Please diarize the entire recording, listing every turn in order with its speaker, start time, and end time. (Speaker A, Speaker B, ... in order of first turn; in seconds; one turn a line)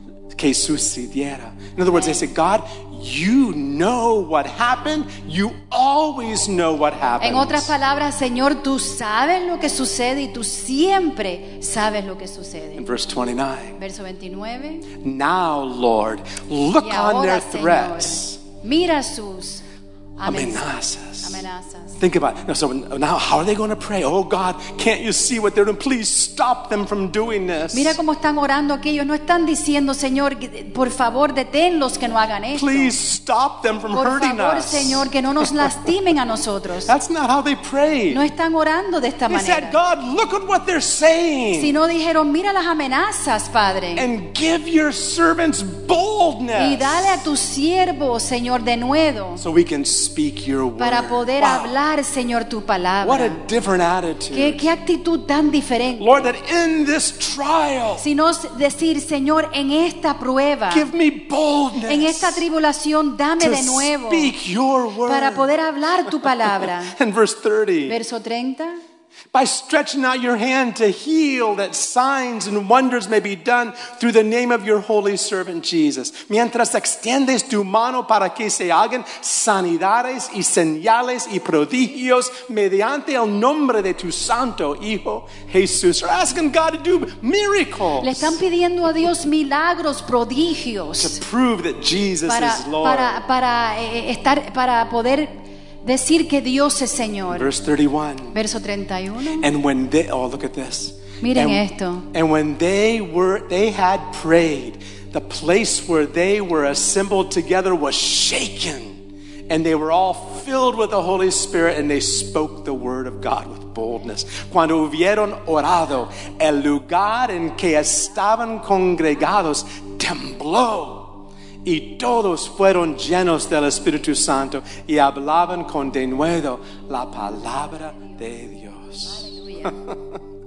Speaker A: 0.3-7.7
Speaker B: 1.9-2.2
Speaker B: 7.2-12.9
Speaker A: 12.8-13.8
Speaker B: 13.8-14.9
Speaker A: 14.9-18.4
Speaker B: 16.8-19.6
Speaker B: 20.2-22.0
Speaker A: 20.2-21.4
Speaker A: 22.0-28.0
Speaker B: 27.7-32.9
Speaker A: 32.5-35.9
Speaker B: 33.9-36.9
Speaker A: 36.8-38.2
Speaker B: 38.1-39.8
Speaker A: 39.3-41.8
Speaker B: 41.5-44.1
Speaker A: 44.0-47.3
Speaker B: 46.5-49.4
Speaker A: 49.4-51.7
Speaker B: 50.8-53.4
Speaker A: 53.0-54.7
Speaker B: 54.3-56.3
Speaker A: 56.0-58.0
Speaker B: 58.0-60.9
Speaker A: 60.7-62.4
Speaker B: 61.8-64.3
Speaker A: 63.4-68.0
Speaker B: 65.0-66.9
Speaker B: 67.9-68.8
Speaker A: 69.3-88.4
Speaker B: 88.0-91.2
Speaker A: 91.0-93.2
Speaker B: 92.2-95.3
Speaker B: 95.8-97.5
Speaker A: 97.3-98.4
Speaker B: 98.3-99.5
Speaker A: 99.3-130.2
Speaker B: 101.2-102.1
Speaker B: 129.3-129.7